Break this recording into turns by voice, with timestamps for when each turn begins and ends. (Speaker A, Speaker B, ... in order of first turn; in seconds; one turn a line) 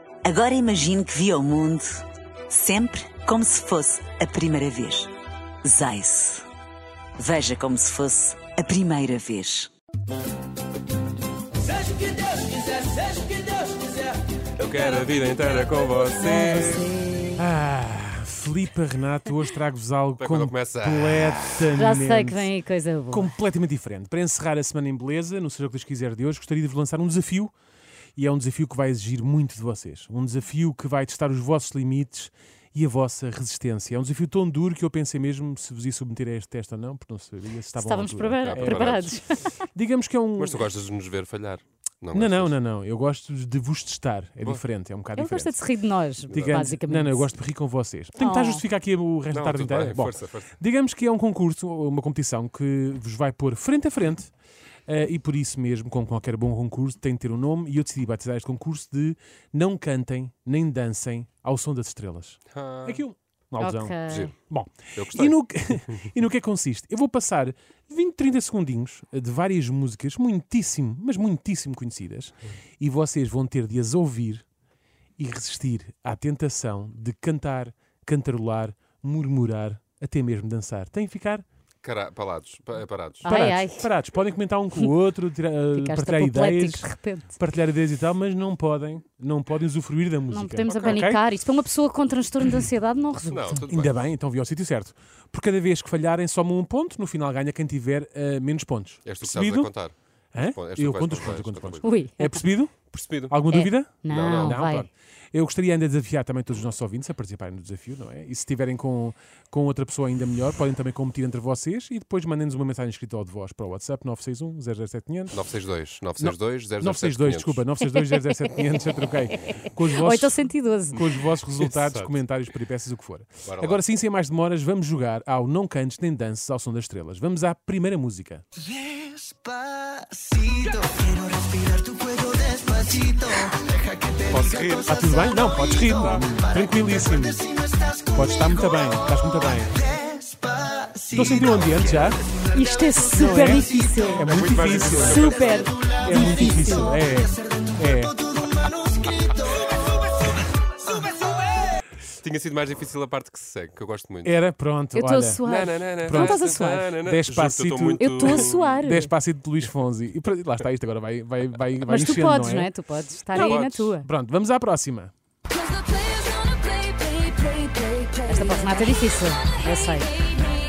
Speaker A: 0.2-5.1
Speaker A: 5.6-6.5
Speaker A: 7.2-9.7
Speaker B: 14.6-16.9
Speaker C: 16.2-17.4
Speaker D: 17.4-22.5
Speaker B: 20.2-21.7
Speaker C: 21.7-23.3
Speaker D: 23.1-27.5
Speaker D: 28.1-40.6
Speaker C: 37.7-39.5
Speaker B: 38.4-39.1
Speaker B: 40.4-42.5
Speaker D: 42.1-45.6
Speaker C: 45.1-47.3
Speaker D: 46.3-54.3
Speaker B: 46.3-46.7
Speaker C: 48.2-48.6
Speaker B: 49.3-50.5
Speaker D: 54.9-74.4
Speaker B: 62.5-63.0
Speaker C: 63.6-64.3
Speaker B: 64.1-64.3
Speaker B: 65.0-65.4
Speaker D: 75.2-81.4
Speaker B: 81.8-83.3
Speaker C: 83.2-83.9
Speaker D: 83.2-91.2
Speaker C: 85.7-87.3
Speaker C: 90.3-93.6
Speaker B: 90.7-91.0
Speaker B: 93.3-94.0
Speaker D: 93.7-99.7
Speaker B: 99.0-101.8
Speaker D: 100.3-115.4
Speaker C: 101.8-102.4
Speaker B: 102.9-103.4
Speaker C: 103.5-104.9
Speaker B: 104.0-104.6
Speaker B: 115.3-117.6
Speaker D: 116.2-128.4
Speaker C: 119.9-121.0
Speaker B: 121.6-122.2
Speaker B: 123.4-123.8
Speaker E: 128.8-133.7
Speaker B: 134.2-134.9
Speaker D: 134.8-137.5
Speaker D: 138.1-139.8
Speaker E: 140.1-140.9
Speaker D: 141.0-142.2
Speaker C: 142.5-144.3
Speaker D: 143.2-145.4
Speaker B: 144.2-145.6
Speaker C: 144.9-146.9
Speaker D: 146.0-148.2
Speaker B: 152.2-154.4
Speaker D: 154.2-155.4
Speaker C: 154.9-156.9
Speaker B: 155.4-158.6
Speaker D: 156.0-162.7
Speaker C: 158.0-159.1
Speaker C: 161.8-164.0
Speaker B: 163.3-163.9
Speaker D: 163.3-165.1
Speaker C: 168.2-170.1